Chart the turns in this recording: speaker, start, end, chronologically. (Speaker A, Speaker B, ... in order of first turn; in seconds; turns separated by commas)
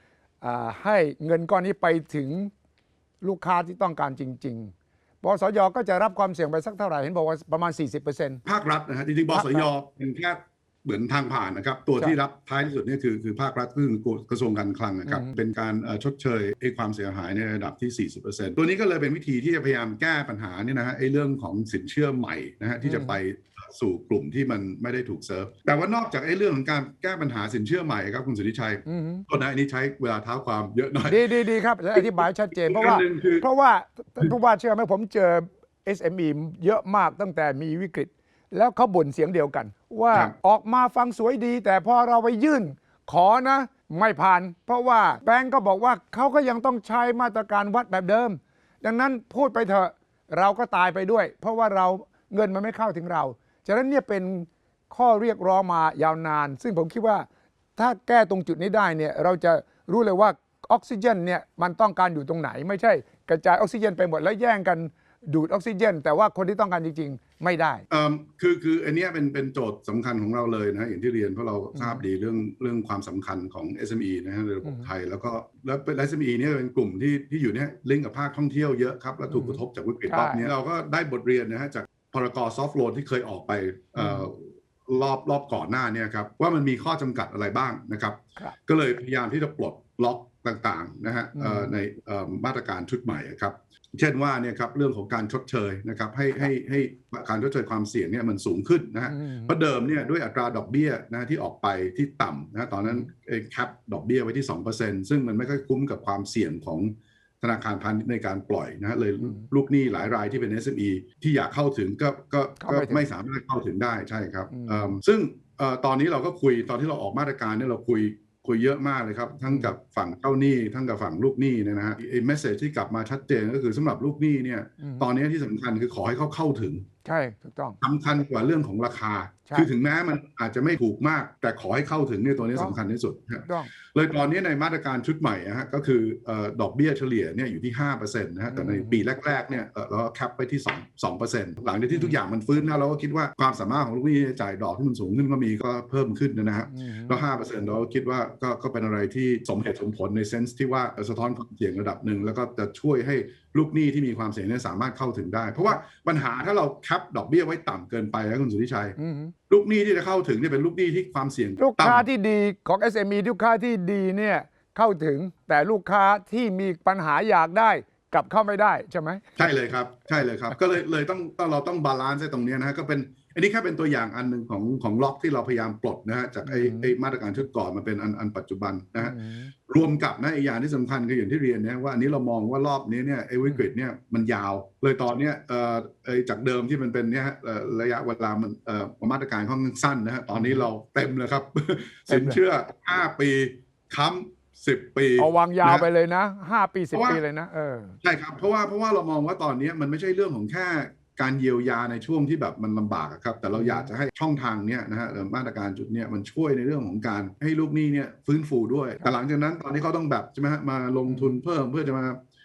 Speaker A: 0.4-2.5, Speaker A: 3.2-8.4, Speaker B: 8.4-31.3, Speaker A: 9.3-9.7, Speaker A: 15.1-15.4, Speaker A: 22.8-23.2, Speaker A: 28.9-29.2, Speaker A: 31.1-67.8, Speaker B: 31.9-33.5, Speaker B: 67.9-126.9, Speaker A: 71.7-72.0, Speaker A: 74.6-74.9, Speaker A: 79.3-80.5, Speaker A: 84.0-84.3, Speaker A: 91.3-91.8, Speaker A: 99.1-99.5, Speaker A: 112.6-113.1, Speaker A: 114.5-115.0, Speaker A: 124.8-125.1, Speaker A: 127.0-127.8, Speaker B: 127.8-159.0, Speaker A: 132.5-132.8, Speaker A: 133.5-133.7, Speaker A: 138.5-139.1, Speaker A: 141.9-142.2, Speaker A: 146.7-147.2, Speaker A: 159.0-159.3, Speaker B: 159.5-162.1, Speaker A: 161.6-169.3, Speaker B: 169.4-195.9, Speaker A: 176.4-176.9, Speaker A: 179.0-179.5, Speaker A: 190.3-190.7, Speaker A: 192.1-192.4, Speaker A: 195.2-197.9, Speaker B: 196.9-197.2, Speaker B: 198.0-212.2, Speaker A: 203.5-203.9, Speaker A: 211.1-211.4